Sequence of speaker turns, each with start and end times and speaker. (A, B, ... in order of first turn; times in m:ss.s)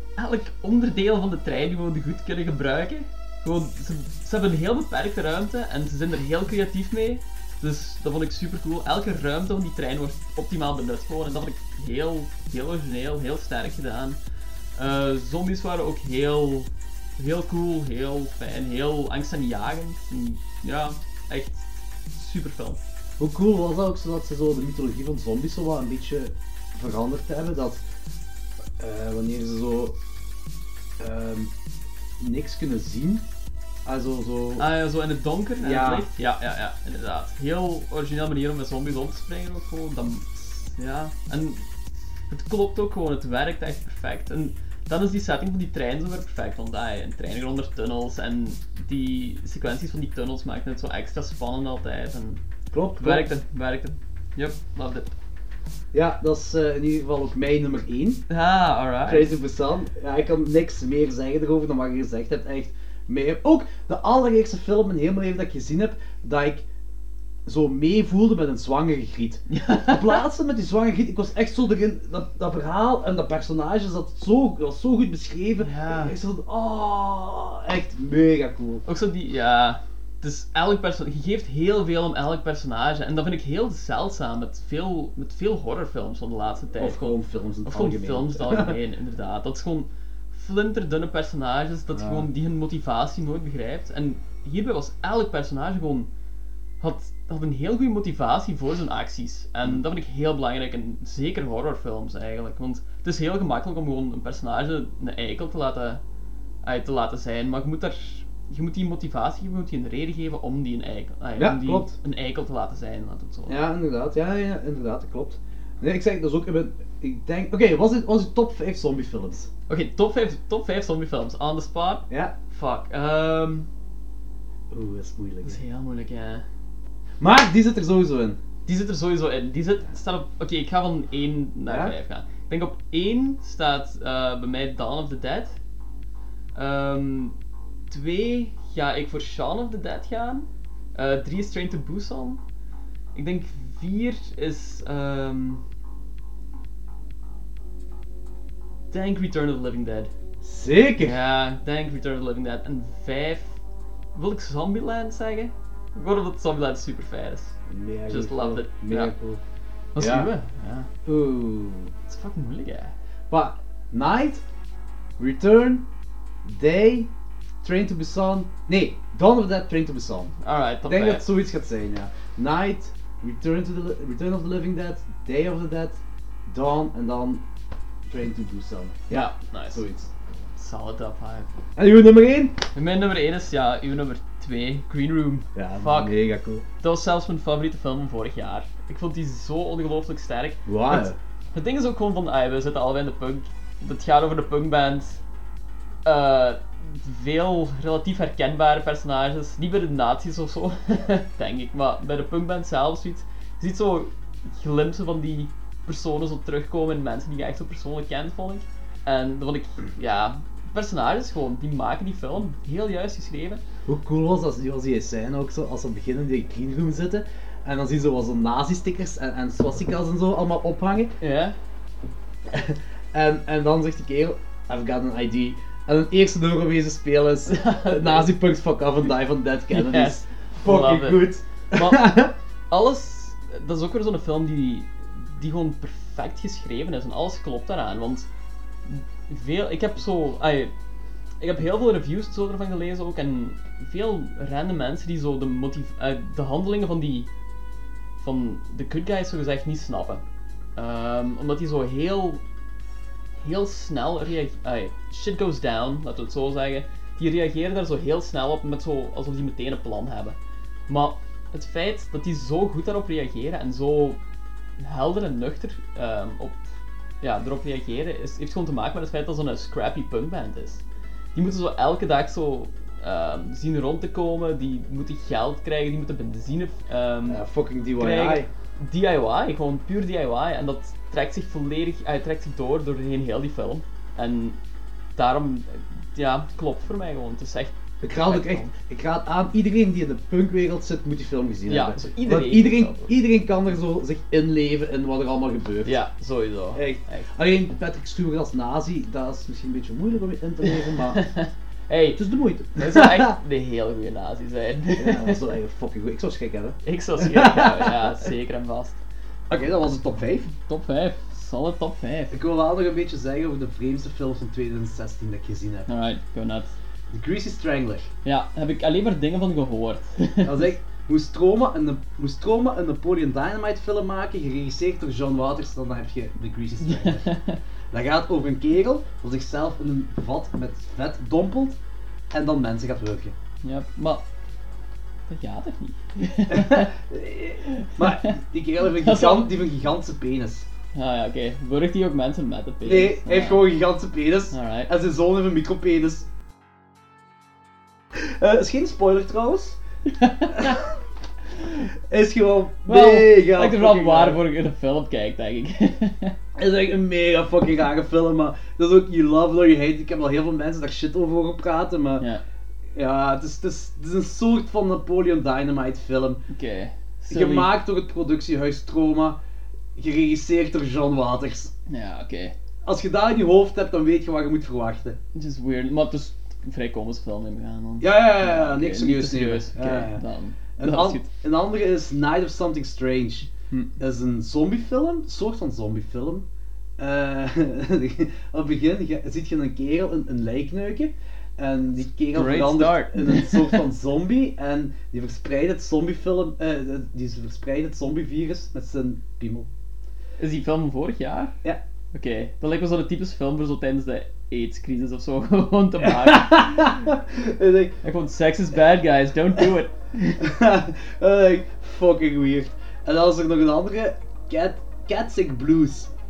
0:00.2-0:14.2 A
0:14.8-0:22.8 A
0:23.2-0:27.8 B
0:28.8-0:30.0 B
0:31.0-0:31.5 B
0:32.2-0:33.3 B
0:33.8-0:34.6 B
0:34.6-0:41.7 A
0:35.6-0:36.1 B
0:42.3-0:52.4 A
0:52.7-0:53.3 B
0:53.0-0:55.1 A
0:55.9-0:58.2 B
0:58.3-0:59.3 A
0:59.0-1:06.6 B
1:07.4-1:18.8 B
1:09.5-1:10.2 A
1:15.6-1:16.1 A
1:18.8-1:36.1 A
1:26.8-1:28.8 B
1:31.9-1:32.3 B
1:36.8-1:46.0 A
1:46.6-1:53.6 A
1:51.4-1:51.9 B
1:53.5-1:59.5 B
1:59.7-2:03.7 A
2:02.1-2:02.3 B
2:04.7-2:05.6 B
2:05.4-2:06.4 A
2:07.2-2:08.4 B
2:08.6-2:15.6 A
2:11.7-2:11.9 B
2:16.5-2:17.4 A
2:17.9-2:22.4 A
2:23.1-2:25.6 A
2:28.9-2:30.1 A
2:30.4-2:31.2 B
2:31.0-2:33.6 A
2:34.1-2:37.6 A
2:37.7-2:39.4 B
2:38.1-2:39.1 A
2:39.9-2:40.9 A
2:40.0-2:40.3 B
2:41.0-2:41.9 B
2:42.1-2:42.9 A
2:43.3-2:44.4 B
2:45.2-2:45.8 B
2:46.4-2:47.1 B
2:47.6-2:50.3 B
2:50.4-2:51.3 A
2:50.8-2:57.4 B
2:58.1-3:00.1 B
2:59.1-2:59.8 A
3:00.6-3:01.5 A
3:01.8-3:02.6 B
3:02.7-3:06.2 A
3:05.5-3:06.6 B
3:06.8-3:15.2 A
3:10.6-3:11.2 B
3:16.0-3:33.6 A
3:33.8-3:41.1 B
3:41.2-3:41.6 A
3:42.5-3:52.3 B
3:47.4-3:48.3 A
3:49.7-3:58.3 A
3:58.8-4:00.7 A
4:01.4-4:07.3 A
4:08.2-4:10.2 A
4:10.8-4:12.4 A
4:13.4-4:20.4 A
4:20.9-4:24.2 A
4:24.8-4:26.6 A
4:27.2-4:30.8 A
4:31.3-4:37.4 A
4:37.3-4:38.5 B
4:38.0-4:44.6 A
4:45.2-4:48.7 A
4:48.0-4:56.0 B
4:51.7-4:53.1 A
4:55.8-4:57.3 A
4:56.7-5:01.2 B
5:00.7-5:02.2 A
5:02.2-5:03.3 B
5:02.7-5:05.5 A
5:04.9-5:08.0 B
5:06.8-5:09.0 A
5:09.5-5:10.5 B
5:10.5-5:12.4 A
5:12.3-5:15.9 B
5:15.9-5:16.7 A
5:17.1-5:18.1 B
5:18.2-5:20.7 A
5:20.4-5:27.3 B
5:26.8-5:27.6 A
5:27.9-5:31.8 B
5:32.3-5:33.3 B
5:33.6-5:34.2 A
5:35.3-5:36.9 A
5:36.5-5:40.7 B
5:37.7-5:39.5 A
5:40.9-5:43.6 A
5:42.8-5:46.3 B
5:44.5-5:44.9 A
5:48.1-5:49.8 B
5:50.0-5:50.8 A
5:52.1-5:54.4 B
5:52.9-5:56.4 A
5:56.6-6:02.2 B
6:02.9-6:06.4 B
6:06.5-6:07.8 A
6:07.3-6:09.4 B
6:10.0-6:11.7 B
6:11.9-6:12.5 A
6:12.8-6:15.2 B
6:15.3-6:21.3 A
6:18.0-6:20.2 B
6:20.8-6:26.4 B
6:27.0-6:39.7 B
6:32.3-6:33.8 A
6:40.4-6:41.5 A
6:42.1-6:47.0 A
6:46.0-6:48.0 B
6:48.0-6:50.4 A
6:50.4-6:56.1 B